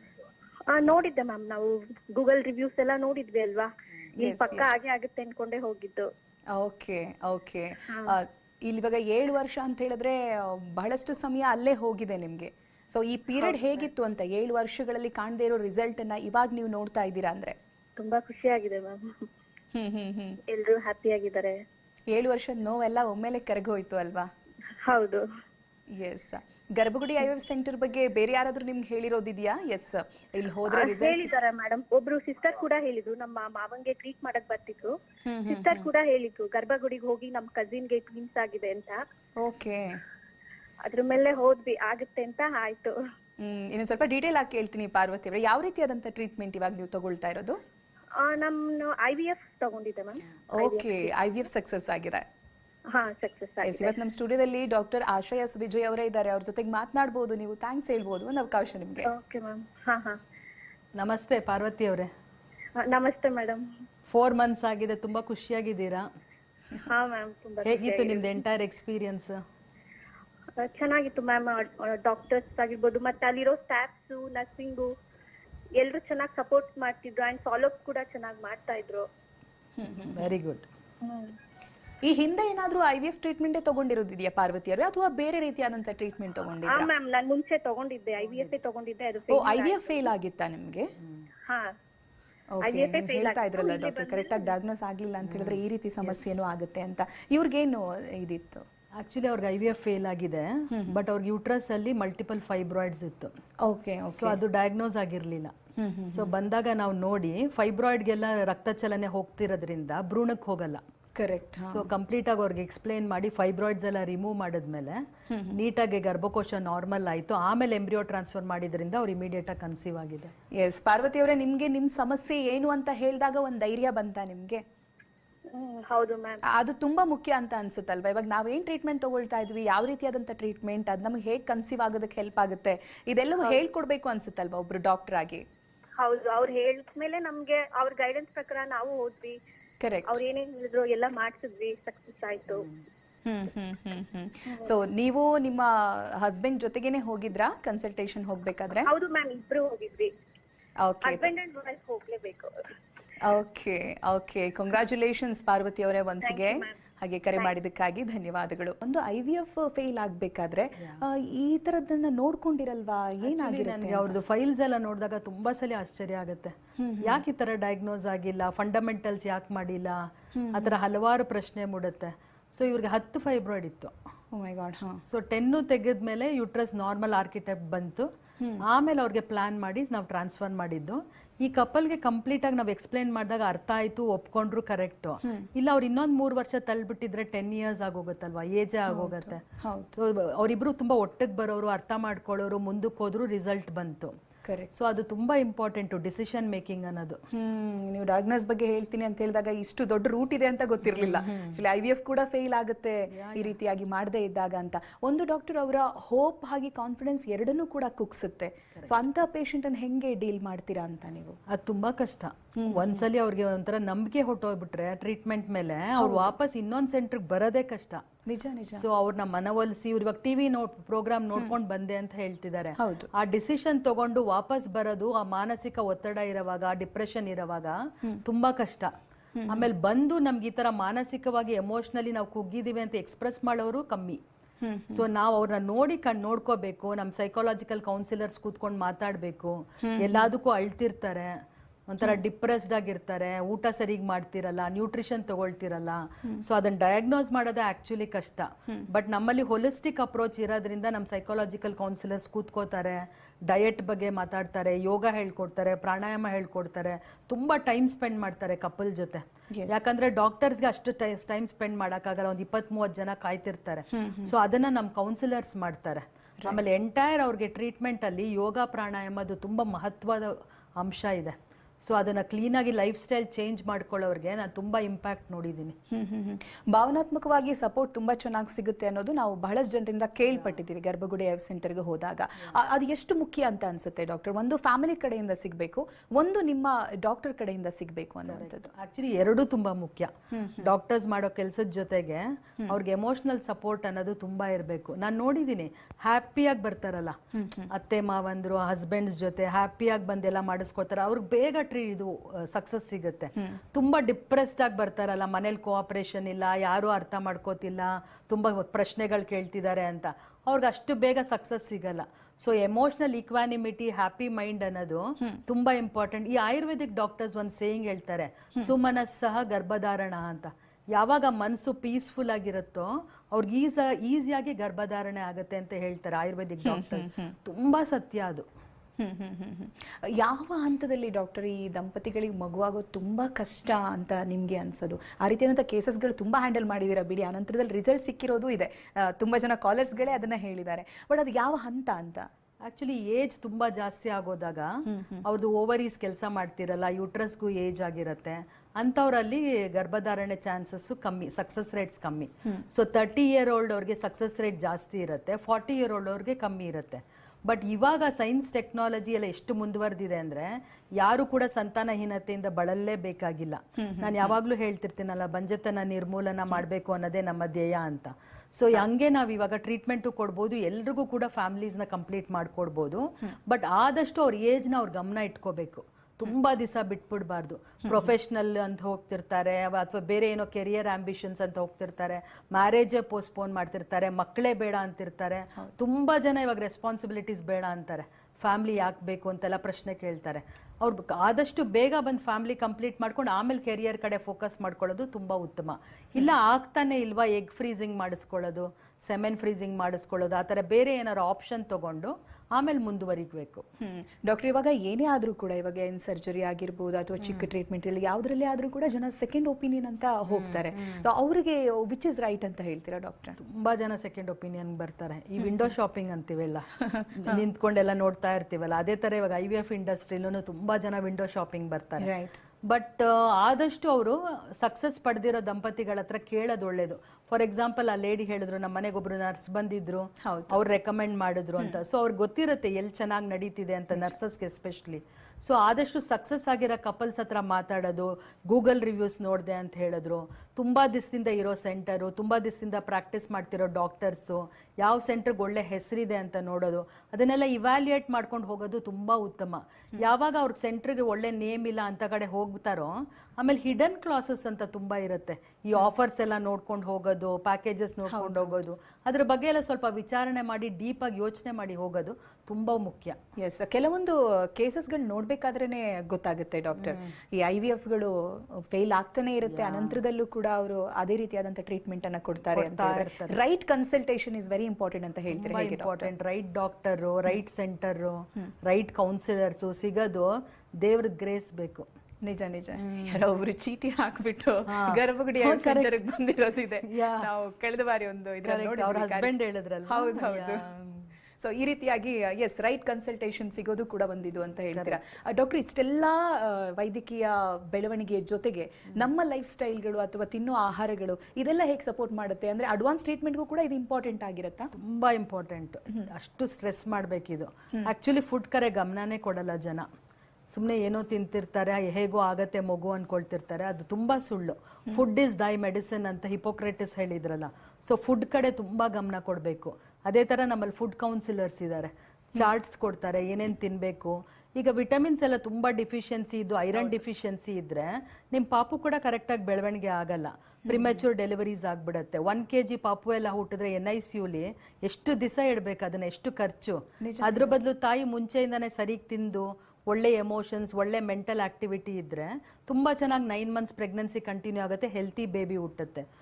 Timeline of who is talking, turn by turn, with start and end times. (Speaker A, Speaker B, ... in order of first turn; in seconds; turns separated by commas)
Speaker A: 0.7-6.1, Speaker B: 4.2-4.7, Speaker B: 6.5-17.6, Speaker A: 7.9-8.1, Speaker A: 18.0-19.3, Speaker B: 19.7-20.4, Speaker A: 20.4-21.6, Speaker B: 22.1-24.3, Speaker A: 24.8-25.2, Speaker B: 25.9-31.3, Speaker A: 30.7-34.9, Speaker B: 35.2-35.9, Speaker A: 35.5-39.0, Speaker B: 39.4-40.0, Speaker A: 40.8-43.0, Speaker B: 43.4-47.6, Speaker A: 48.1-51.1, Speaker B: 50.5-52.2, Speaker A: 52.9-53.9, Speaker B: 53.6-59.1, Speaker A: 59.0-60.2, Speaker C: 61.0-62.1, Speaker A: 62.8-63.6, Speaker C: 64.1-66.1, Speaker A: 66.8-68.3, Speaker C: 67.6-69.4, Speaker A: 70.5-74.9, Speaker A: 75.8-79.0, Speaker B: 79.8-80.3, Speaker C: 80.1-80.7, Speaker A: 81.0-81.3, Speaker B: 82.0-86.9, Speaker A: 86.6-90.1, Speaker B: 89.3-90.9, Speaker A: 91.5-91.7, Speaker B: 92.5-98.6, Speaker A: 92.6-94.5, Speaker C: 95.2-95.6, Speaker C: 99.0-103.3, Speaker B: 100.7-101.0, Speaker B: 103.6-104.4, Speaker C: 104.1-105.5, Speaker B: 105.8-106.3, Speaker C: 106.1-110.8, Speaker B: 111.1-111.9, Speaker C: 111.7-120.3, Speaker B: 115.3-115.6, Speaker B: 120.5-124.6, Speaker A: 125.5-126.4, Speaker B: 126.4-135.4, Speaker A: 136.0-139.4, Speaker B: 139.8-140.2, Speaker A: 140.1-142.7, Speaker B: 143.2-148.9, Speaker A: 148.8-150.1, Speaker B: 150.8-151.3, Speaker A: 151.0-152.7, Speaker B: 153.2-164.2, Speaker A: 156.2-156.7, Speaker C: 163.2-173.9, Speaker B: 166.8-167.2, Speaker B: 170.3-170.7, Speaker B: 174.3-175.0, Speaker C: 175.1-178.1, Speaker C: 178.6-189.4, Speaker B: 188.9-189.9, Speaker C: 189.9-194.2, Speaker B: 194.4-194.7, Speaker C: 194.7-197.2, Speaker B: 197.3-211.4, Speaker C: 200.8-201.6, Speaker C: 203.1-203.5, Speaker C: 211.5-218.0, Speaker B: 212.6-213.1, Speaker B: 216.0-216.3, Speaker B: 218.2-218.8, Speaker C: 218.8-228.9, Speaker B: 222.8-223.1, Speaker B: 229.3-229.7, Speaker C: 229.5-234.2, Speaker B: 234.6-235.0, Speaker C: 234.9-275.8, Speaker B: 239.8-240.3, Speaker B: 259.5-259.8, Speaker B: 263.9-264.3, Speaker B: 275.9-288.7, Speaker C: 288.3-297.2, Speaker B: 290.3-290.7, Speaker B: 297.3-297.7, Speaker C: 297.7-328.5, Speaker B: 326.6-327.3, Speaker B: 329.0-342.3, Speaker C: 342.6-403.6, Speaker B: 344.9-345.2, Speaker B: 363.8-364.4, Speaker B: 377.9-378.1, Speaker B: 403.8-413.4, Speaker C: 410.3-411.1, Speaker C: 413.4-422.1, Speaker B: 416.8-417.4, Speaker B: 422.0-422.4, Speaker C: 422.6-463.2, Speaker B: 430.2-430.6, Speaker B: 458.1-458.6, Speaker B: 463.4-476.1, Speaker C: 466.8-467.1, Speaker C: 469.5-470.0, Speaker C: 472.5-473.4, Speaker C: 475.3-481.9, Speaker B: 482.2-489.3, Speaker C: 482.8-483.2, Speaker C: 484.7-486.0, Speaker C: 486.8-487.3, Speaker C: 488.4-491.1, Speaker B: 489.9-490.7, Speaker B: 491.4-504.7, Speaker C: 504.8-509.9, Speaker C: 510.5-546.0, Speaker B: 530.6-531.0, Speaker B: 537.0-537.5